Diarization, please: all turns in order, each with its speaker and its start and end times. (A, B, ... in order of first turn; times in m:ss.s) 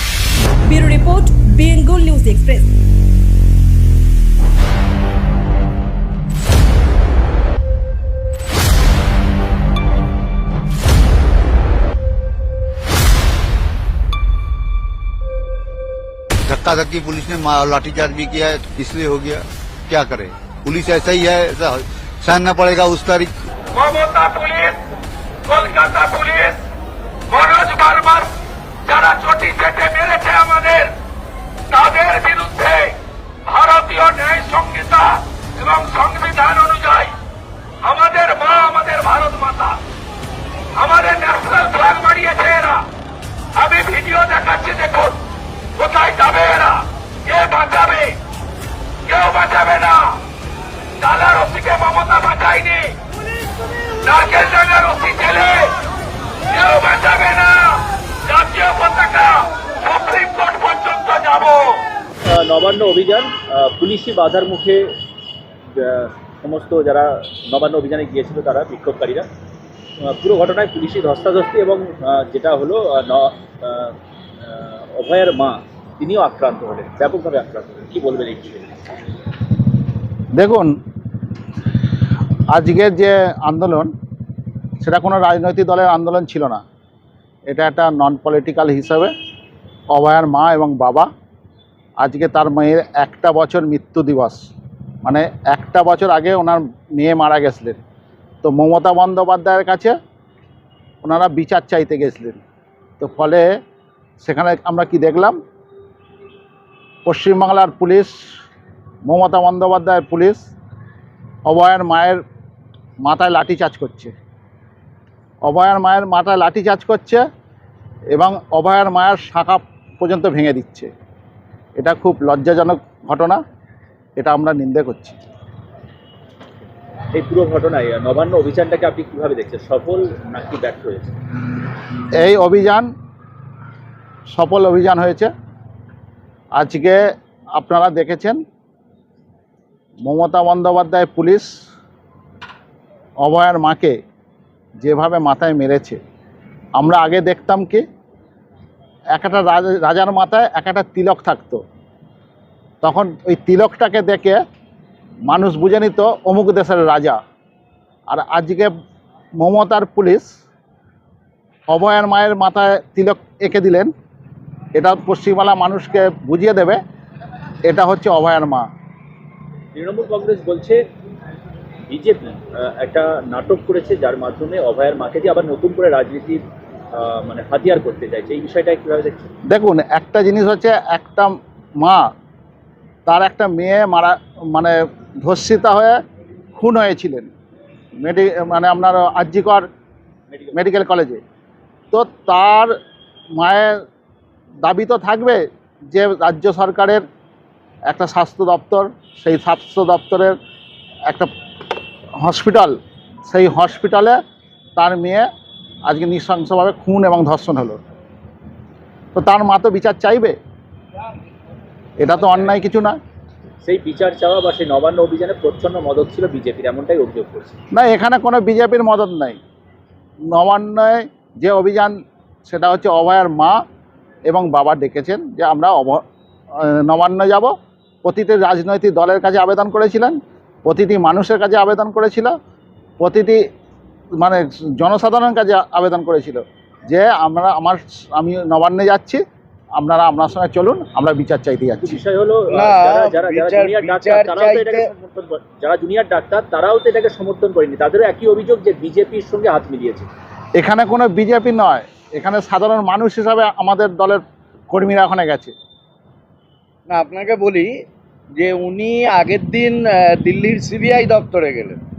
0:00.7-0:02.7 A
0:16.4-0:23.3 B
0:23.7-0:24.8 C
0:25.5-0:26.6 C
0:27.3-0:28.3 C
0:28.8-0:30.9 C
0:31.7-0:32.9 C
0:33.5-0:37.1 C
0:37.8-0:39.8 C
0:40.8-0:42.8 C
0:43.6-0:45.2 C
0:45.8-0:48.2 C
0:49.1-0:50.2 C
0:51.0-0:53.0 C
0:54.0-0:55.7 C
0:56.5-1:01.8 C
1:02.2-1:04.9 D
1:05.7-1:09.3 D
1:10.0-1:18.7 D
1:20.3-1:20.7 E
1:22.5-1:23.9 E
1:24.8-1:26.6 E
1:27.5-1:29.1 E
1:29.9-1:31.1 E
1:32.0-1:34.4 E
1:35.0-1:37.8 E
1:38.4-1:39.9 E
1:41.0-1:42.4 E
1:43.0-1:43.6 E
1:44.2-1:45.4 E
1:47.0-1:48.1 E
1:49.0-1:50.4 E
1:51.5-1:52.2 E
1:53.0-1:54.1 E
1:55.4-1:57.2 E
1:58.1-2:00.9 E
2:01.8-2:03.4 E
2:04.2-2:05.2 E
2:07.1-2:11.2 D
2:12.1-2:12.9 E
2:14.3-2:15.3 E
2:16.6-2:17.0 E
2:17.5-2:18.4 E
2:20.0-2:21.6 E
2:23.2-2:24.0 E
2:24.8-2:26.0 E
2:26.8-2:27.8 E
2:29.1-2:31.6 E
2:32.8-2:34.4 E
2:35.3-2:37.2 E
2:38.1-2:38.7 E
2:39.4-2:40.3 E
2:41.7-2:43.9 E
2:44.7-2:46.8 E
2:47.6-2:48.7 E
2:49.7-2:50.8 D
2:51.9-2:59.3 D
2:59.5-3:02.0 E
3:03.0-3:06.0 E
3:06.6-3:07.3 E
3:08.0-3:09.6 E
3:10.3-3:10.7 D
3:10.5-3:11.2 E
3:11.9-3:12.7 E
3:13.3-3:13.8 E
3:14.6-3:17.0 E
3:17.9-3:20.4 E
3:22.2-3:22.7 E
3:23.3-3:24.2 E
3:24.8-3:25.3 E
3:25.9-3:27.8 E
3:29.1-3:30.4 E
3:32.0-3:33.0 E
3:32.2-3:32.6 D
3:33.6-3:37.5 D
3:37.7-3:39.4 E
3:40.3-3:43.6 E
3:44.3-3:46.0 E
3:46.6-3:47.5 E
3:48.0-3:52.3 E
3:53.0-3:53.4 E
3:54.2-3:59.2 E
3:59.8-4:02.0 E
4:01.8-4:10.1 D
4:02.5-4:04.9 F
4:10.6-4:15.5 E
4:16.9-4:17.7 F
4:18.4-4:21.8 F